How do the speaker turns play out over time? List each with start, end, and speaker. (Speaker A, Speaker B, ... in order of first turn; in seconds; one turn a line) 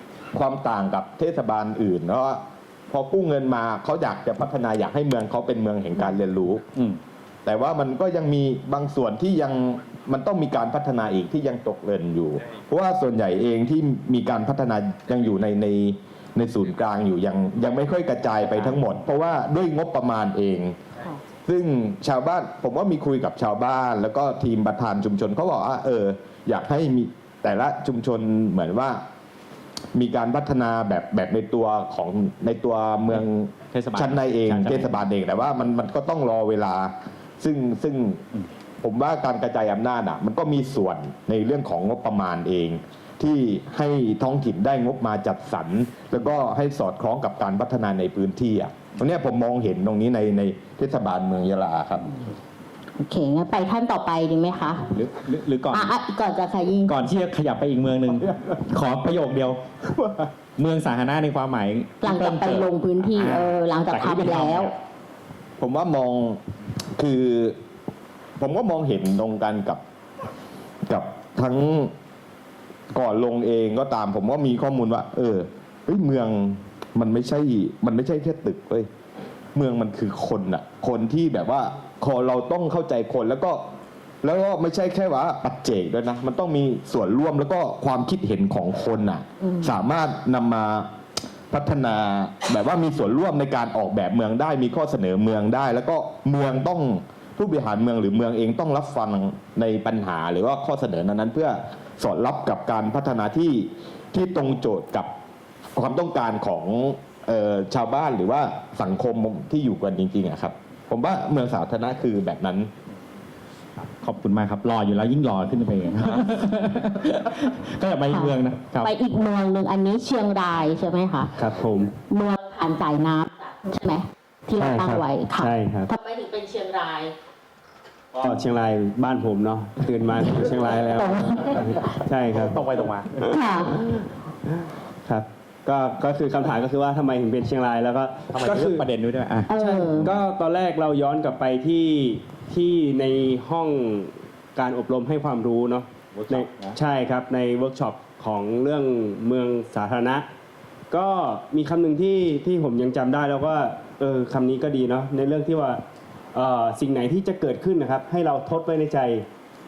Speaker A: 0.3-6.6
Speaker A: 7.5-20.8
Speaker A: 21.5-29.0
Speaker A: 29.9-38.2
Speaker B: 33.1-35.0
Speaker A: 38.8-52.1
Speaker C: 53.0-54.9
Speaker B: 54.9-56.0
Speaker C: 55.7-57.0
Speaker B: 56.9-59.6
Speaker B: 60.6-64.7
Speaker C: 62.0-64.7
Speaker A: 65.6-66.4
Speaker A: 67.0-67.6
Speaker A: 68.4-69.8
Speaker A: 70.9-71.9
Speaker A: 72.9-78.9
Speaker A: 79.5-83.6
Speaker A: 84.2-90.9
Speaker C: 89.4-89.8
Speaker A: 91.5-105.1
Speaker A: 105.8-112.7
Speaker B: 113.8-118.9
Speaker C: 118.1-121.3
Speaker D: 121.4-121.9
Speaker C: 122.1-127.2
Speaker D: 124.6-125.9
Speaker D: 128.2-132.6
Speaker C: 131.0-131.5
Speaker B: 132.3-133.2
Speaker C: 133.3-133.8
Speaker D: 133.7-138.9
Speaker B: 138.3-140.1
Speaker C: 139.5-140.1
Speaker D: 139.6-150.3
Speaker B: 146.1-146.8
Speaker D: 150.9-155.8
Speaker D: 156.3-159.3